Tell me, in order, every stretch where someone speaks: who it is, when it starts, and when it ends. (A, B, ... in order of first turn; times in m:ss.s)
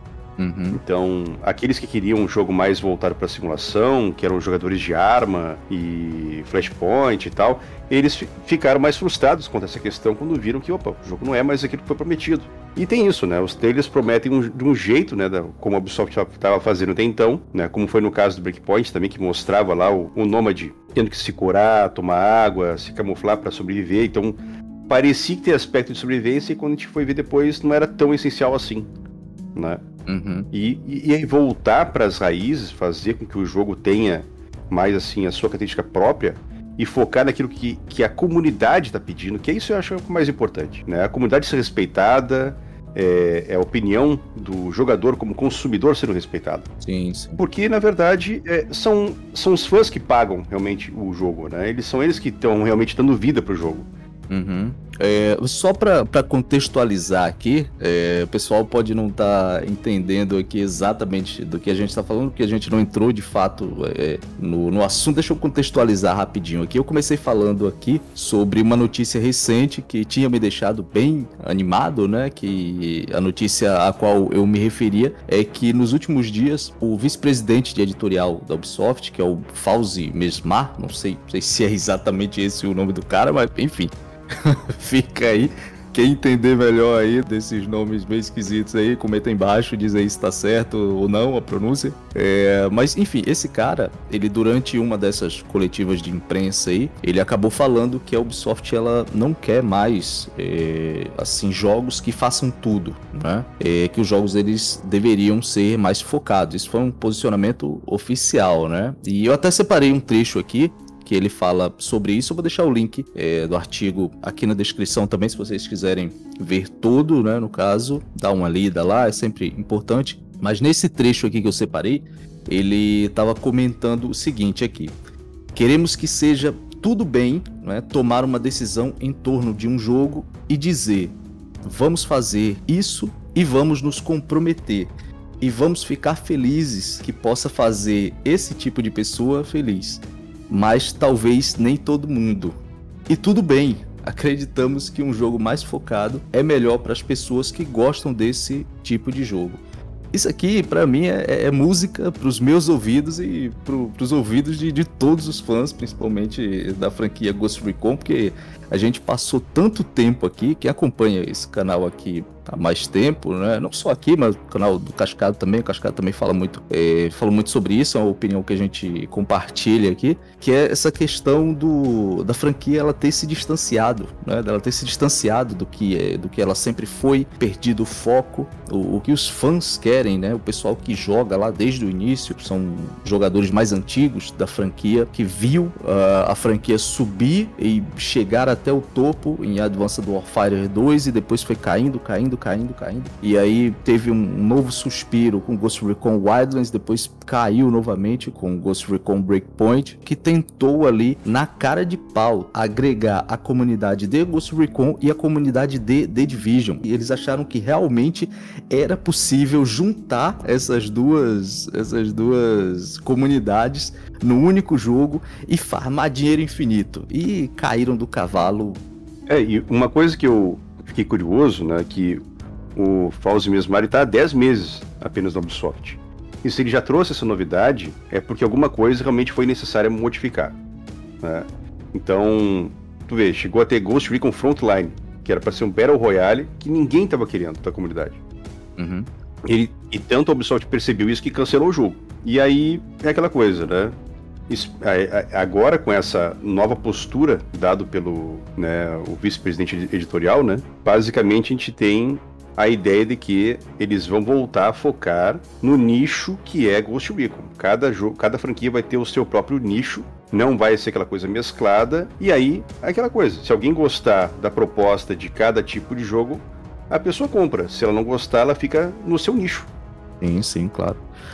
0:00.4-0:00.8 A
0:00.7-0:28.9 B
0:29.6-0:29.8 B
0:30.1-0:30.5 A
0:30.5-0:46.7 B
0:46.8-0:47.4 A
0:47.4-0:53.9 B
0:54.3-2:05.0 A
2:05.5-2:22.6 A
2:23.1-2:29.6 A
2:30.1-3:38.8 A
3:39.3-3:42.2 B
3:42.8-3:50.6 B
3:51.2-3:58.2 B
3:58.8-3:59.1 A
3:59.4-4:04.0 B
4:04.5-4:29.7 B
4:30.2-4:31.0 A